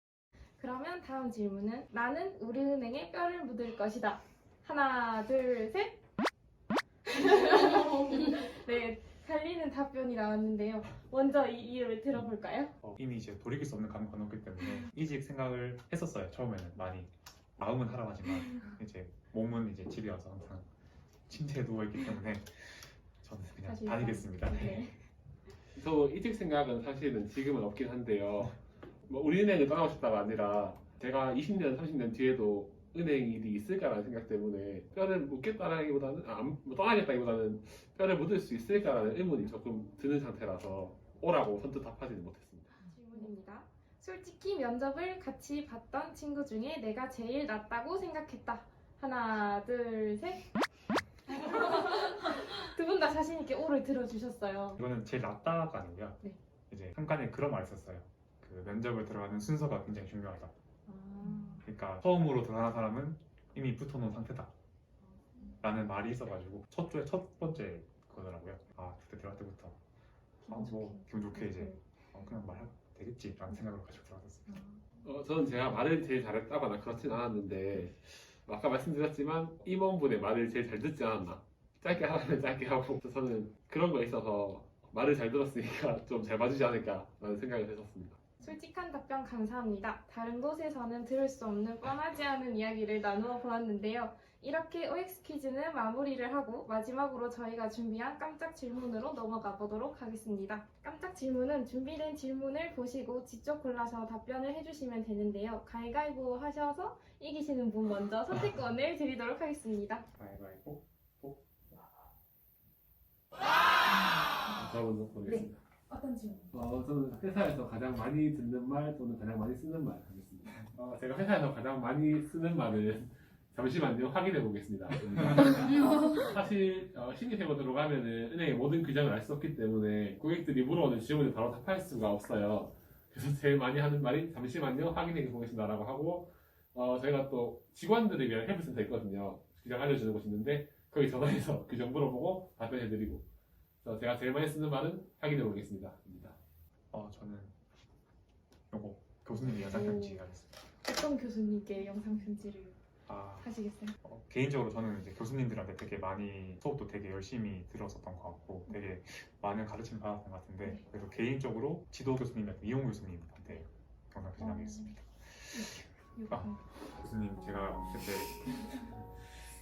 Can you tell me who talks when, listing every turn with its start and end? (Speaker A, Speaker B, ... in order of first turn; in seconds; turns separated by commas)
Speaker A: 0.6-6.0, Speaker A: 7.1-12.7, Speaker B: 12.8-20.7, Speaker B: 21.3-24.8, Speaker A: 23.6-25.0, Speaker C: 25.8-28.6, Speaker C: 29.1-42.8, Speaker A: 42.8-50.5, Speaker A: 51.3-54.8, Speaker B: 54.8-60.5, Speaker A: 60.9-61.6, Speaker B: 61.6-64.5, Speaker B: 65.6-69.8, Speaker B: 70.5-74.6, Speaker C: 75.0-88.2, Speaker A: 88.4-110.1, Speaker B: 110.2-111.8, Speaker C: 114.5-115.6, Speaker C: 116.5-143.3, Speaker C: 143.8-146.4, Speaker B: 146.9-147.6, Speaker B: 148.7-150.6, Speaker A: 149.5-150.2, Speaker A: 150.8-152.8, Speaker B: 153.1-153.5, Speaker A: 153.4-153.9, Speaker B: 154.0-169.3